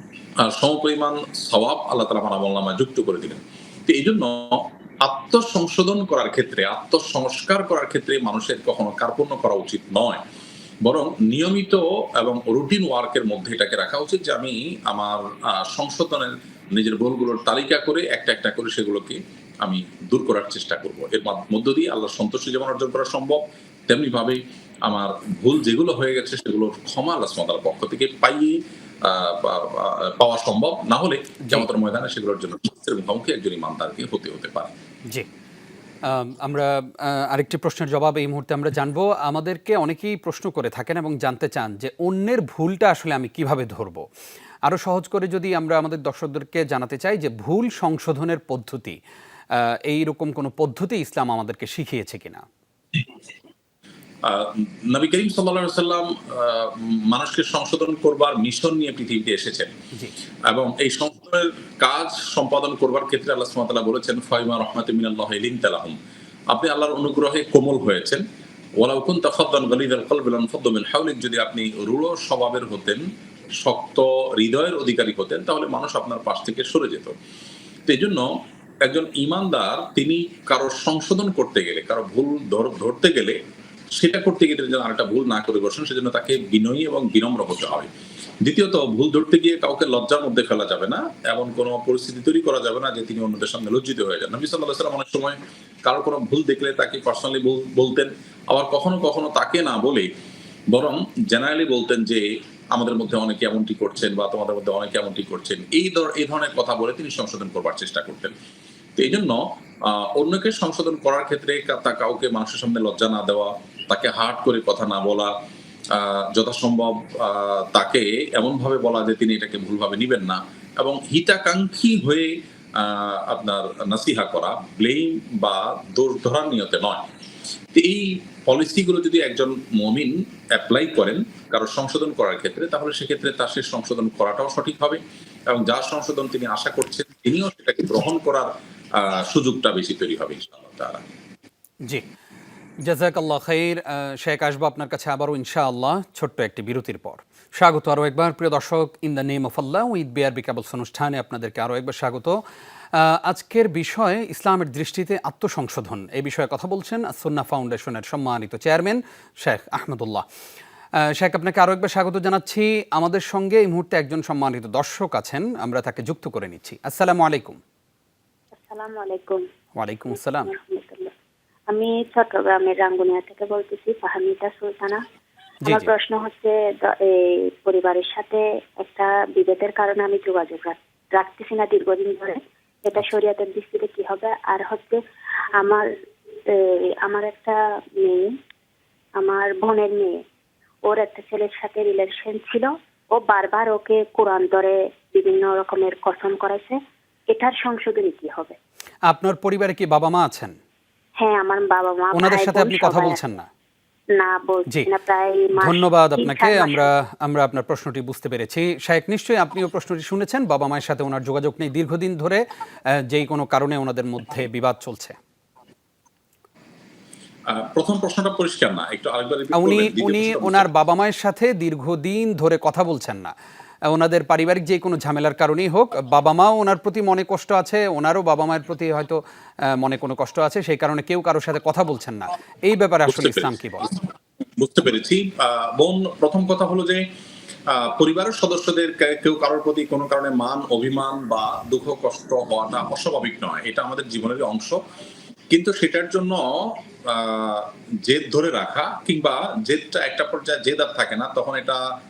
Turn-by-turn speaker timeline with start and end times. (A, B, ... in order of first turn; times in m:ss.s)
0:00.4-0:10.2 A
0:10.8-0:34.7 A
0:36.1-0:44.0 B
0:44.6-0:49.0 B
0:49.9-0:52.4 B
0:54.2-0:59.7 A
1:00.5-1:06.0 A
1:06.5-1:08.2 A
1:08.8-1:13.0 A
1:13.6-1:17.1 A
1:17.9-1:18.3 A
1:18.8-1:23.4 A
1:24.0-1:27.9 A
1:28.4-1:40.1 A
1:40.7-1:48.3 A
1:49.0-1:55.3 A
1:55.9-2:07.0 A
2:07.7-2:21.0 A
2:22.8-2:32.4 B
2:33.0-2:40.2 B
2:41.2-2:47.6 B
2:48.6-2:49.4 C
2:49.8-2:50.5 B
2:50.4-2:51.1 C
2:51.7-2:55.0 C
2:55.6-2:55.9 B
2:55.6-3:05.0 C
3:05.6-3:05.8 C
3:06.5-3:08.3 C
3:09.2-3:10.2 C
3:10.9-3:16.8 C
3:17.3-3:18.6 C
3:19.1-3:20.5 B
3:21.2-3:23.2 C
3:22.1-3:23.5 B
3:24.2-3:26.9 C
3:25.6-3:32.4 B
3:33.1-3:35.2 B
3:37.5-3:40.7 A
3:39.5-3:43.3 B
3:43.9-3:49.2 B
3:49.8-3:53.9 B
3:53.1-3:53.9 A
3:54.6-3:57.0 A
3:57.7-4:04.8 A
4:05.5-4:11.8 A